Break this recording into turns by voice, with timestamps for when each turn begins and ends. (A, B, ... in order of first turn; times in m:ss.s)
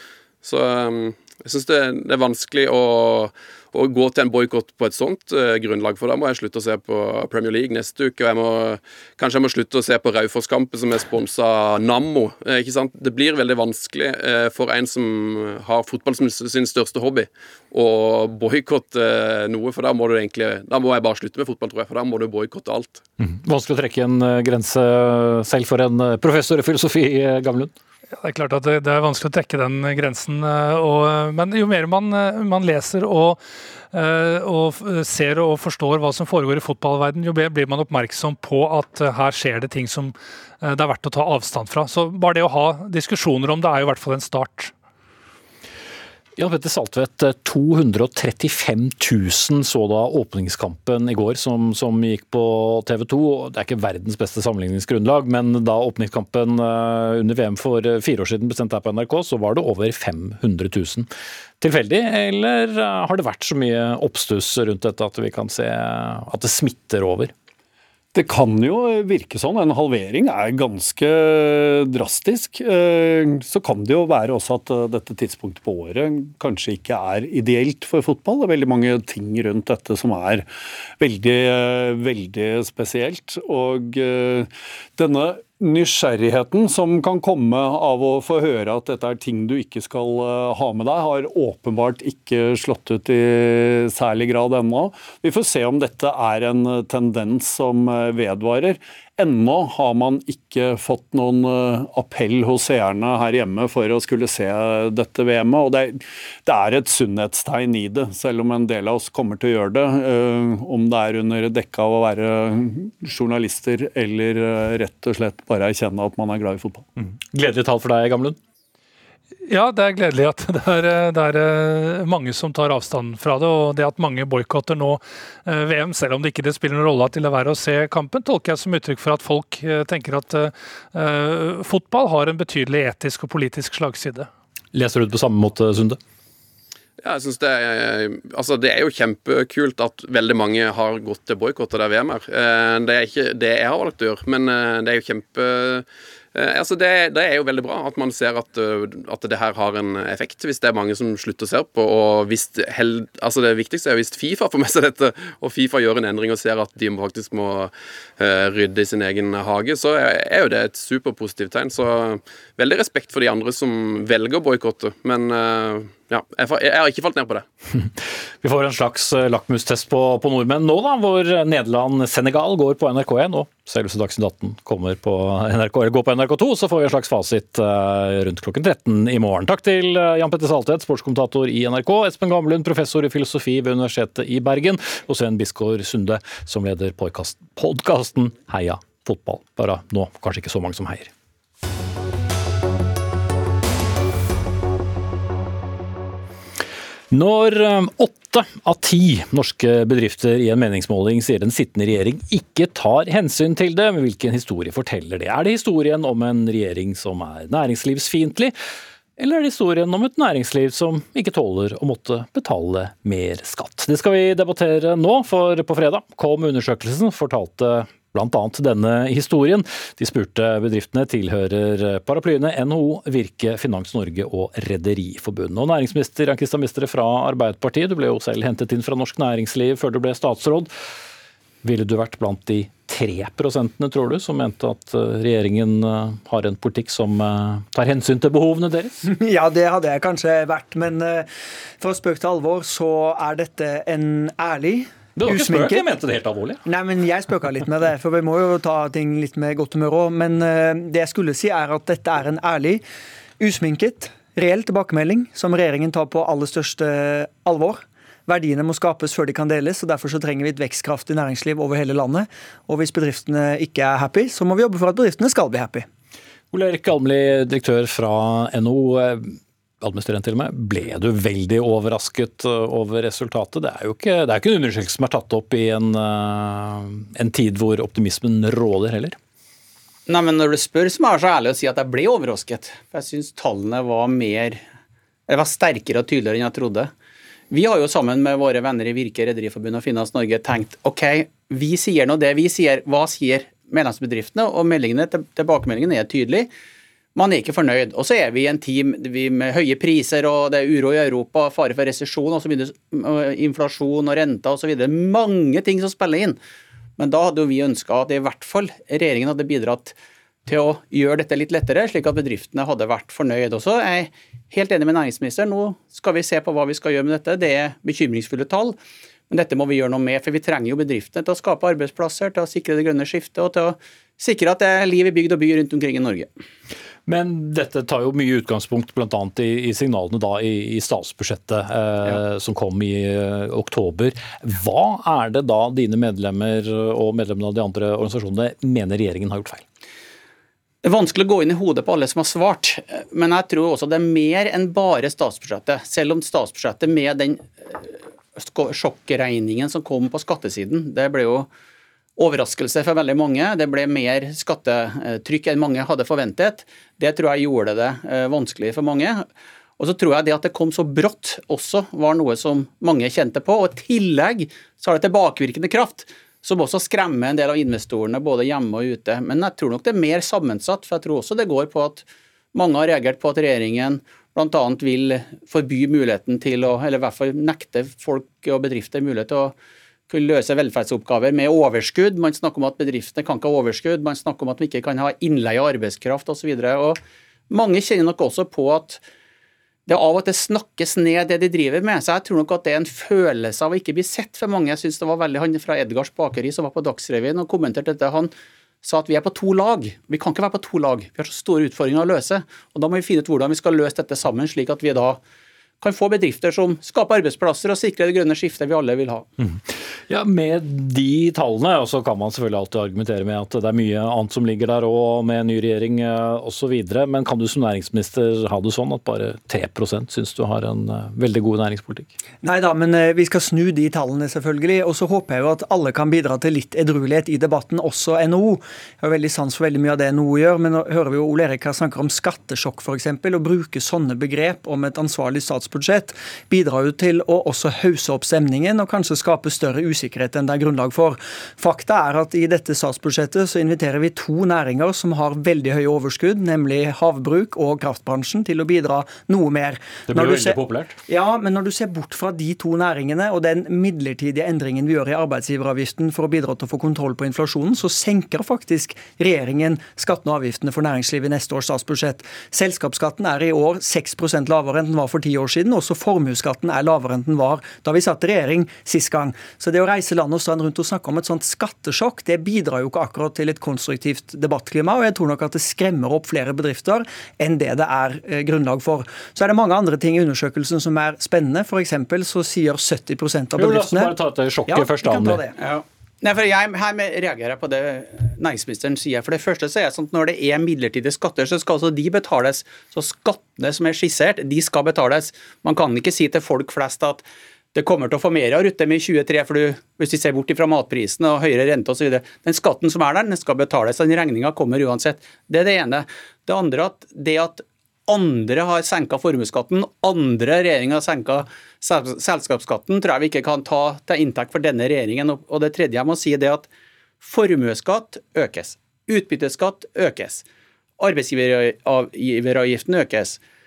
0:00.4-0:23.0 A
0:23.2-0:27.7 B
0:28.2-0:44.7 C
0:46.4-1:01.1 B
1:01.6-1:07.3 B
1:08.1-1:56.8 D
1:57.0-1:58.4 B
1:59.4-2:14.3 C
2:14.7-2:16.0 B
2:17.0-2:47.4 A
2:47.8-3:11.1 B
3:17.1-3:28.6 B
3:29.2-3:50.7 B
3:51.6-3:59.0 B
3:59.0-4:01.3 E
4:01.8-4:05.9 E
4:05.2-4:06.6 B
4:06.6-4:12.8 E
4:13.4-4:25.9 E
4:26.5-4:39.2 B
4:40.1-4:44.6 F
4:45.3-4:46.9 F
4:47.5-4:56.5 F
4:57.1-5:06.4 F
5:07.0-5:18.8 F
5:19.3-5:26.3 F
5:27.1-5:39.6 B
5:40.8-5:51.5 F
5:52.2-5:59.2 F
5:59.8-6:19.5 F
6:20.1-6:27.0 F
6:27.5-6:29.0 F
6:29.9-6:38.3 F
6:38.8-6:45.2 F
6:45.8-6:49.3 F
6:49.4-7:02.1 B
7:02.4-8:05.5 E
7:30.1-7:31.0 B
8:03.6-8:05.4 B
8:05.6-8:36.7 F
8:37.2-8:40.5 F
8:41.0-8:43.4 F